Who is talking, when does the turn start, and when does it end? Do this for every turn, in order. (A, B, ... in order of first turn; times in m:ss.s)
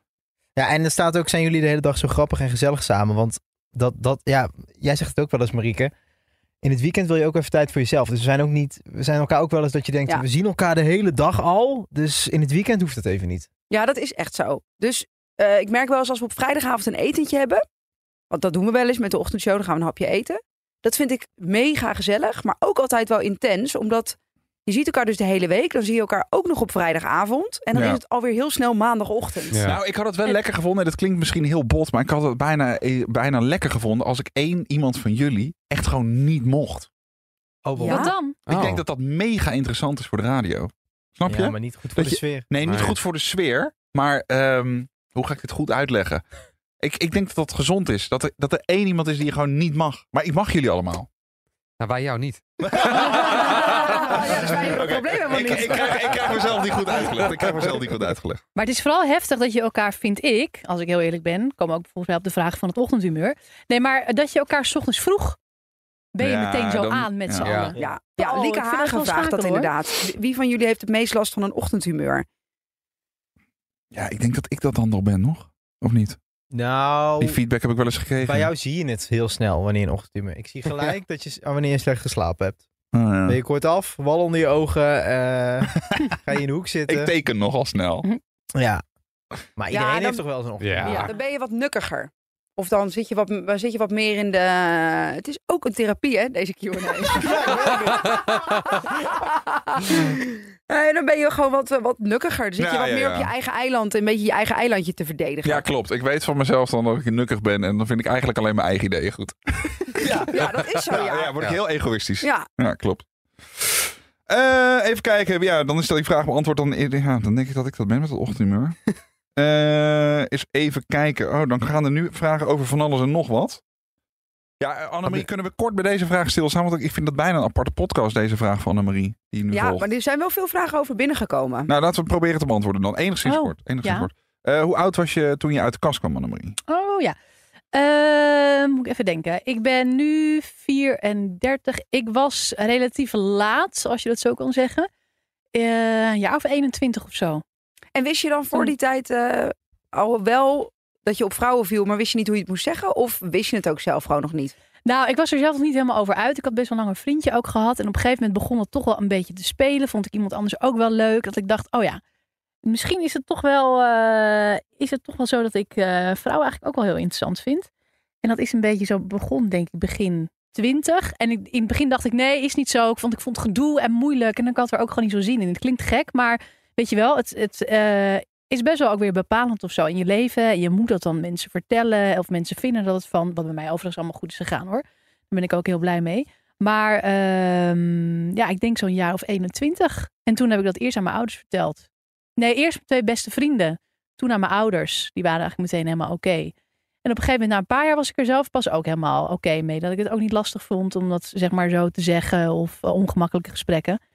0:00.6-0:05.9 A
0:06.6-0:13.5 A
0:13.7-0:17.6 B
0:18.3-0:29.7 B
0:27.7-0:28.0 C
0:29.5-0:29.8 D
0:29.7-0:36.9 C
0:37.6-0:38.1 A
0:37.8-0:38.4 E
0:37.8-0:38.1 B
0:38.5-0:38.8 D
0:38.5-0:46.2 C
0:41.3-0:42.5 A
0:42.6-0:43.0 D
0:46.8-0:51.1 C
0:51.8-0:52.4 D
0:52.6-0:58.4 C
0:52.8-0:57.0 B
0:58.6-1:05.4 E
1:06.2-1:09.7 E
1:06.2-1:07.6 C
1:07.4-1:07.8 D
1:07.8-1:12.2 B
1:13.9-1:16.2 C
1:16.5-1:17.4 A
1:17.2-1:18.5 C
1:18.2-1:22.6 A
1:22.9-1:23.4 C
1:23.3-1:27.1 A
1:25.8-1:26.1 C
1:26.9-1:28.1 C
1:28.6-1:28.8 A
1:29.6-1:31.1 A
1:29.7-1:30.2 B
1:30.6-1:31.1 D
1:30.8-1:45.6 B
1:37.1-1:38.2 A
1:42.6-1:43.3 C
1:45.4-1:53.0 C
1:50.0-1:51.5 B
1:52.2-1:52.5 B
1:53.6-1:58.8 C
1:59.4-2:03.6 C
2:04.6-2:09.9 C
2:09.5-2:11.7 B
2:11.7-2:16.6 C
2:13.2-2:14.1 E
2:16.7-2:17.2 E
2:17.7-2:24.9 E
2:25.5-2:27.4 E
2:28.0-2:34.5 B
2:34.9-2:42.0 E
2:42.6-2:47.7 E
2:48.2-3:11.9 E
3:12.4-3:16.5 E
3:17.0-3:24.0 E